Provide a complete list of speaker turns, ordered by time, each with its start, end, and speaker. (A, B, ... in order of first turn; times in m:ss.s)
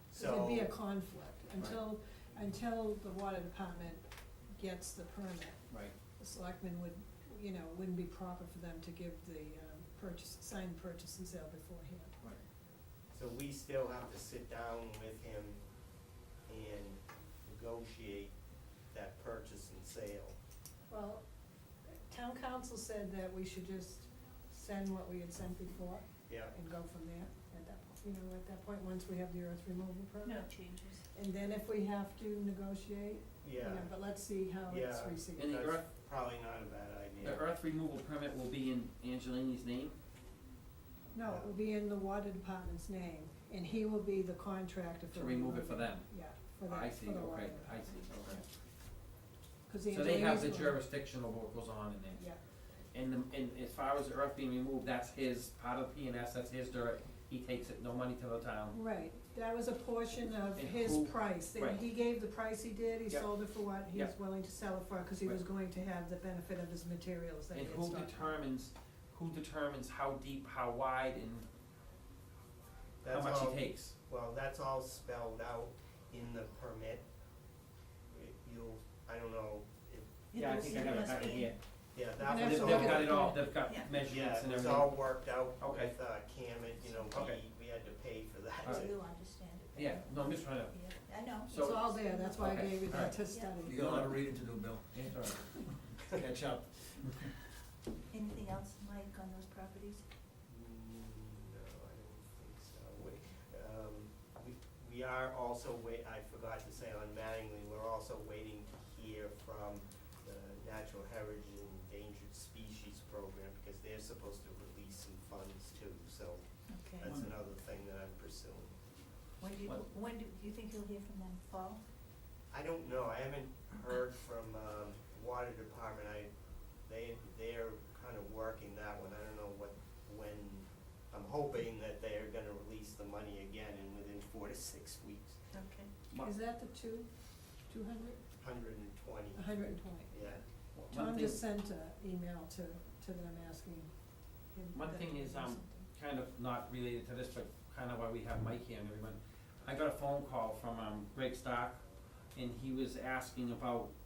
0:00.1-0:00.7 A
0:00.1-0:04.0 B
0:04.5-0:05.6 B
0:06.2-0:12.1 B
0:13.1-0:15.6 A
0:16.5-0:18.3 A
0:18.9-0:20.4 A
0:20.9-0:21.2 B
0:22.1-0:30.4 B
0:26.3-0:26.5 A
0:30.2-0:31.0 C
0:31.1-0:35.5 B
0:33.4-0:33.9 A
0:34.7-0:37.4 A
0:35.4-0:35.8 D
0:37.2-0:40.0 D
0:41.1-0:48.4 B
0:41.2-0:41.5 A
0:45.1-0:46.1 D
0:46.7-0:48.4 D
0:49.7-0:50.8 B
0:49.9-0:52.2 D
0:52.9-0:58.7 D
0:58.7-1:08.4 B
1:00.6-1:01.8 D
1:07.5-1:11.4 D
1:13.0-1:17.0 A
1:13.1-1:13.9 D
1:18.1-1:23.3 A
1:20.3-1:21.5 C
1:20.3-1:21.6 D
1:22.2-1:23.4 B
1:22.3-1:25.0 D
1:23.6-1:23.9 C
1:24.0-1:28.9 A
1:25.6-1:25.9 D
1:27.1-1:27.4 D
1:28.6-1:33.6 C
1:29.7-1:31.8 D
1:31.6-1:33.8 B
1:32.4-1:32.8 D
1:32.9-1:37.3 E
1:33.7-1:34.2 D
1:34.9-1:35.5 D
1:38.1-1:40.0 C
1:40.5-1:58.7 A
1:56.7-1:57.1 C
1:57.0-1:57.3 E
1:59.4-2:01.8 C
2:02.5-2:06.3 A
2:06.8-2:15.4 A
2:15.5-2:15.9 C
2:16.2-2:17.1 B
2:17.6-2:18.2 B
2:18.4-2:20.4 A
2:19.3-2:20.2 B
2:20.7-2:21.4 D
2:20.9-2:23.9 B
2:24.5-2:25.9 B
2:24.7-2:31.8 D
2:32.3-2:33.9 D